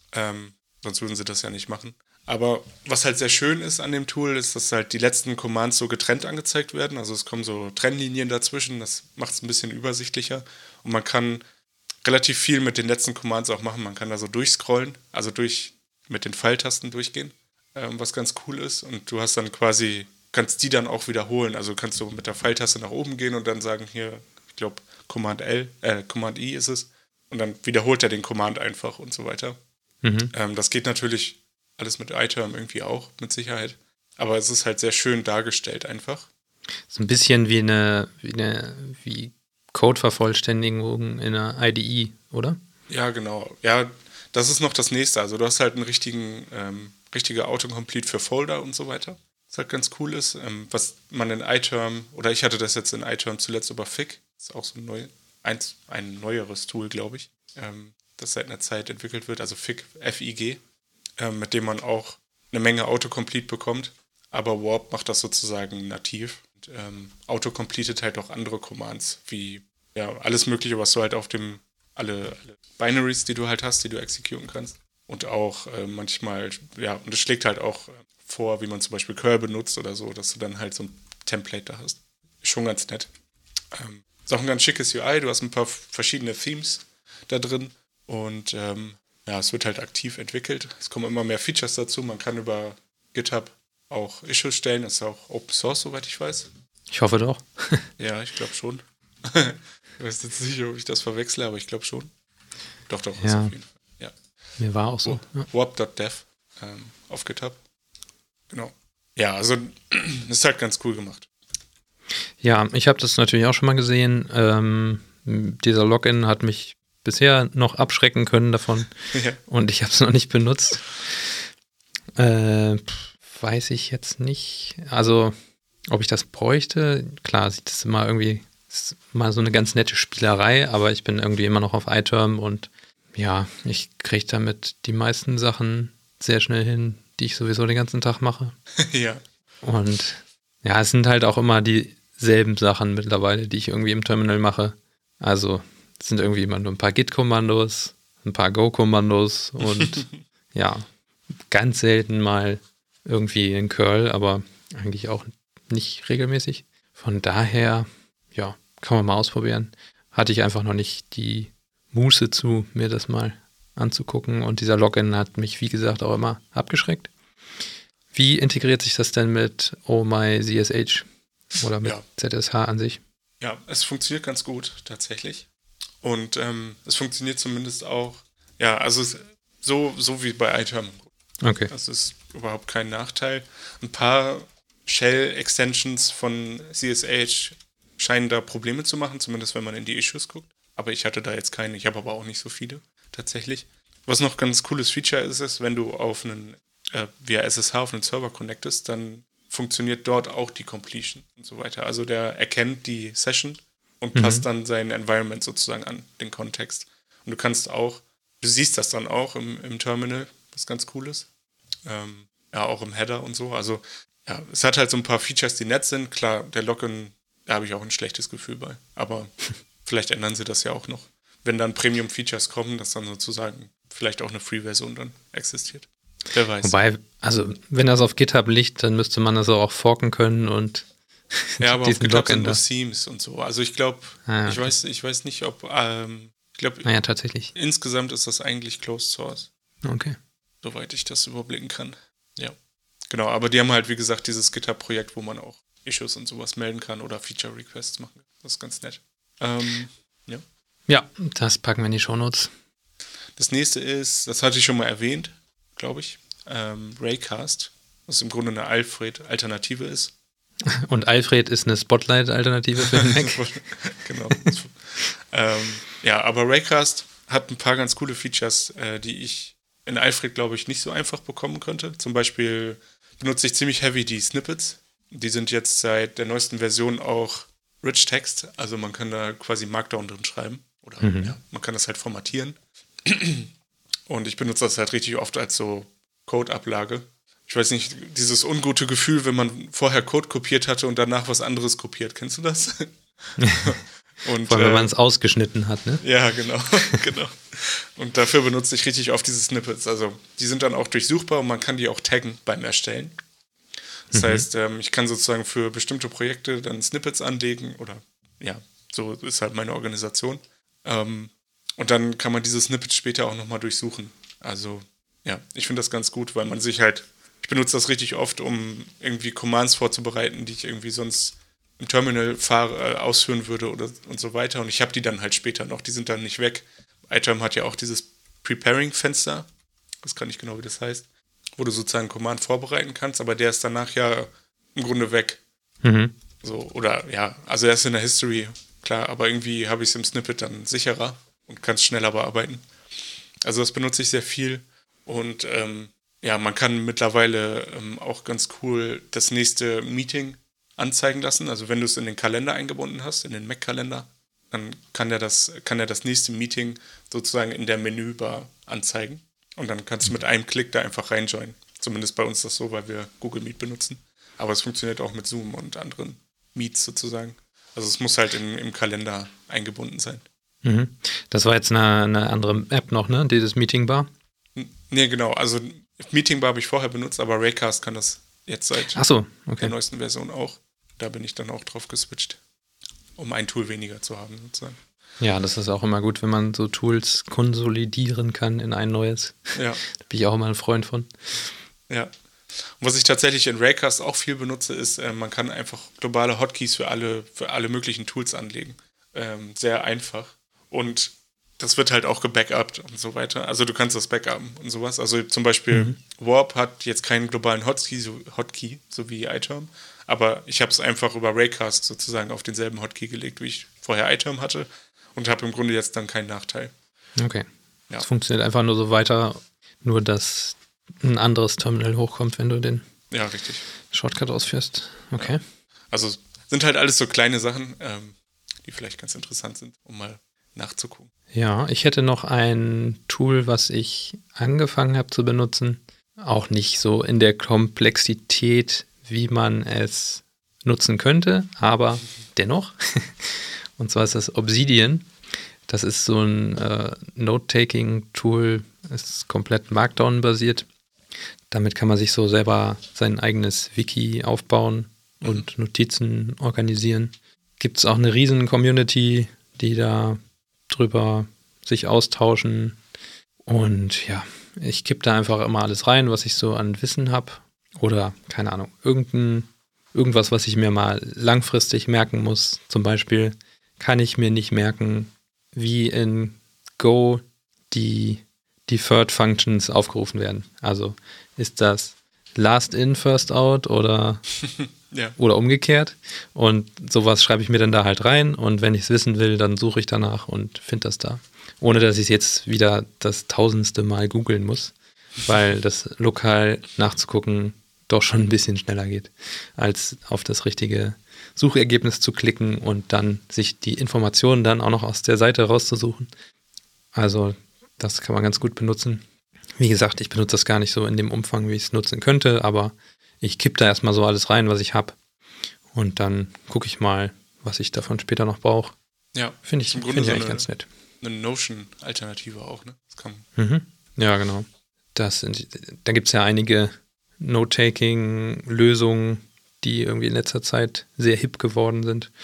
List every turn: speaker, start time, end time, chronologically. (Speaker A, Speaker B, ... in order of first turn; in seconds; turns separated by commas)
Speaker A: 0.1-11.4, Speaker A: 12.0-29.6, Speaker B: 30.0-30.3, Speaker A: 30.3-36.3, Speaker B: 36.9-42.6, Speaker A: 42.9-60.6, Speaker A: 61.2-83.1, Speaker A: 83.7-96.5, Speaker B: 96.9-97.9, Speaker A: 98.0-102.1, Speaker A: 102.9-104.1, Speaker B: 103.2-103.5, Speaker B: 104.6-105.5, Speaker A: 105.0-107.6, Speaker A: 108.5-111.3, Speaker B: 112.4-118.9, Speaker A: 119.1-119.4, Speaker B: 119.5-120.9, Speaker B: 122.2-125.3, Speaker B: 125.9-138.6, Speaker A: 138.8-139.2, Speaker B: 139.6-150.9, Speaker A: 149.6-150.2, Speaker B: 151.5-167.1, Speaker B: 168.1-173.0, Speaker A: 173.4-175.5, Speaker A: 176.0-181.1, Speaker B: 181.4-181.7, Speaker A: 181.7-211.3, Speaker B: 204.2-204.4, Speaker A: 211.8-226.8, Speaker B: 226.6-232.6, Speaker A: 231.6-236.9, Speaker B: 234.3-234.7, Speaker B: 236.8-237.5, Speaker A: 237.6-239.5, Speaker B: 239.8-240.2, Speaker A: 240.6-242.6, Speaker A: 243.1-250.4, Speaker B: 250.9-252.5, Speaker A: 253.4-260.1, Speaker B: 260.7-263.4, Speaker A: 262.8-264.8, Speaker A: 265.3-283.5, Speaker B: 281.0-281.4, Speaker A: 284.1-292.9, Speaker B: 293.4-293.8, Speaker A: 293.6-294.9, Speaker B: 294.5-296.0, Speaker A: 296.0-303.2, Speaker A: 304.1-329.5, Speaker B: 304.1-304.5, Speaker A: 330.0-331.1, Speaker A: 331.6-335.4, Speaker B: 335.8-336.1, Speaker A: 336.4-342.7, Speaker A: 343.4-370.2, Speaker B: 370.6-374.1, Speaker A: 374.6-379.0, Speaker B: 378.9-379.7, Speaker A: 379.6-382.4, Speaker A: 383.2-384.8, Speaker B: 385.2-391.1, Speaker A: 389.5-389.8, Speaker A: 392.8-416.7, Speaker B: 405.7-406.0, Speaker B: 417.2-417.5, Speaker B: 418.0-422.9, Speaker A: 423.1-423.6, Speaker B: 423.9-425.4, Speaker A: 425.9-431.1, Speaker B: 431.3-445.1, Speaker B: 445.7-450.7, Speaker B: 451.5-462.8, Speaker A: 455.2-455.5, Speaker B: 463.4-484.3, Speaker A: 484.6-485.2, Speaker B: 485.2-506.1, Speaker B: 506.9-509.0, Speaker B: 509.6-515.0, Speaker B: 515.7-518.8, Speaker A: 519.1-520.5, Speaker B: 519.5-520.7, Speaker A: 521.0-523.2, Speaker B: 523.4-532.1